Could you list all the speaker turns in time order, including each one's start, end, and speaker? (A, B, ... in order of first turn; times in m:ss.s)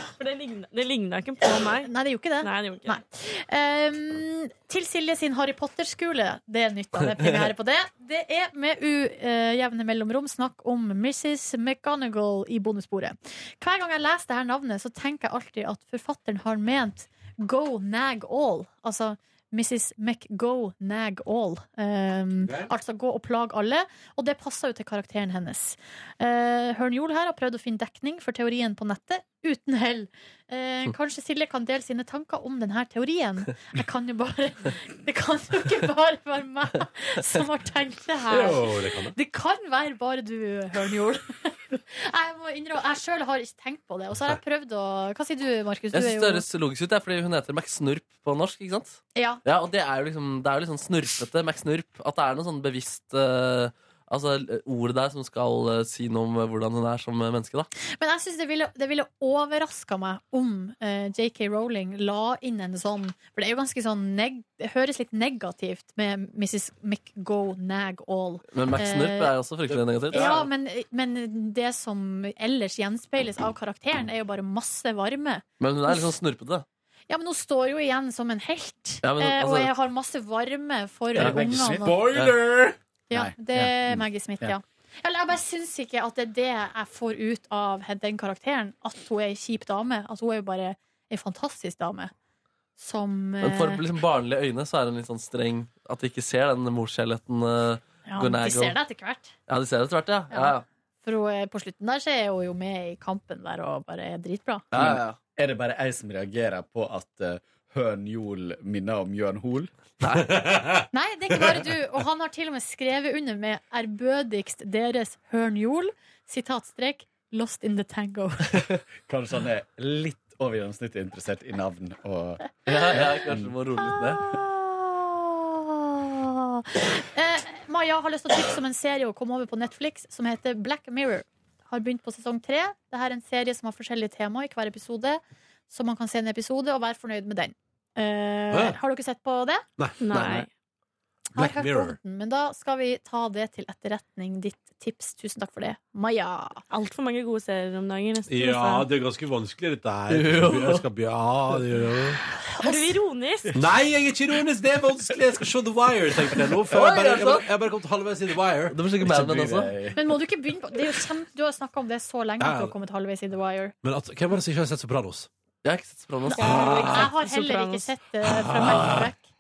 0:00.2-0:03.0 A
0:01.8-0:46.4 B
0:22.4-0:22.7 C
0:38.3-0:39.2 C
0:45.9-0:57.7 D
0:49.2-0:49.4 B
0:58.0-1:09.3 B
1:08.5-1:10.3 D
1:09.7-1:10.5 C
1:10.1-1:16.1 B
1:15.6-1:16.7 D
1:17.1-1:22.0 B
1:19.0-1:19.7 D
1:21.2-1:22.6 D
1:21.2-1:22.0 E
1:21.8-1:22.6 C
1:23.1-1:32.1 B
1:23.1-1:24.6 E
1:32.8-1:33.8 B
1:33.4-1:38.8 D
1:38.1-1:39.3 B
1:39.5-1:40.6 D
1:40.3-1:44.7 B
1:44.7-1:45.2 D
1:44.7-1:49.7 E
1:50.0-1:50.4 D
1:50.3-1:50.8 C
1:50.9-1:58.5 B
1:59.0-2:03.5 E
2:02.7-2:04.2 D
2:03.8-2:19.6 B
2:18.5-2:18.8 C
2:19.8-2:20.5 C
2:20.0-2:20.5 A
2:20.1-2:20.4 D
2:21.4-2:22.0 C
2:21.4-2:26.6 B
2:26.7-2:28.9 A
2:28.3-2:32.2 C
2:30.1-2:30.8 D
2:32.5-2:33.0 B
2:32.6-2:33.5 A
2:33.5-2:38.8 C
2:36.7-2:37.4 D
2:38.7-2:39.8 D
2:39.0-2:40.0 E
2:39.9-2:43.7 B
2:42.4-2:42.7 C
2:43.8-2:45.3 C
2:45.6-2:47.1 D
2:46.3-2:49.2 B
2:46.4-2:47.1 C
2:47.2-2:47.9 A
2:48.2-2:49.1 C
2:48.6-2:49.0 D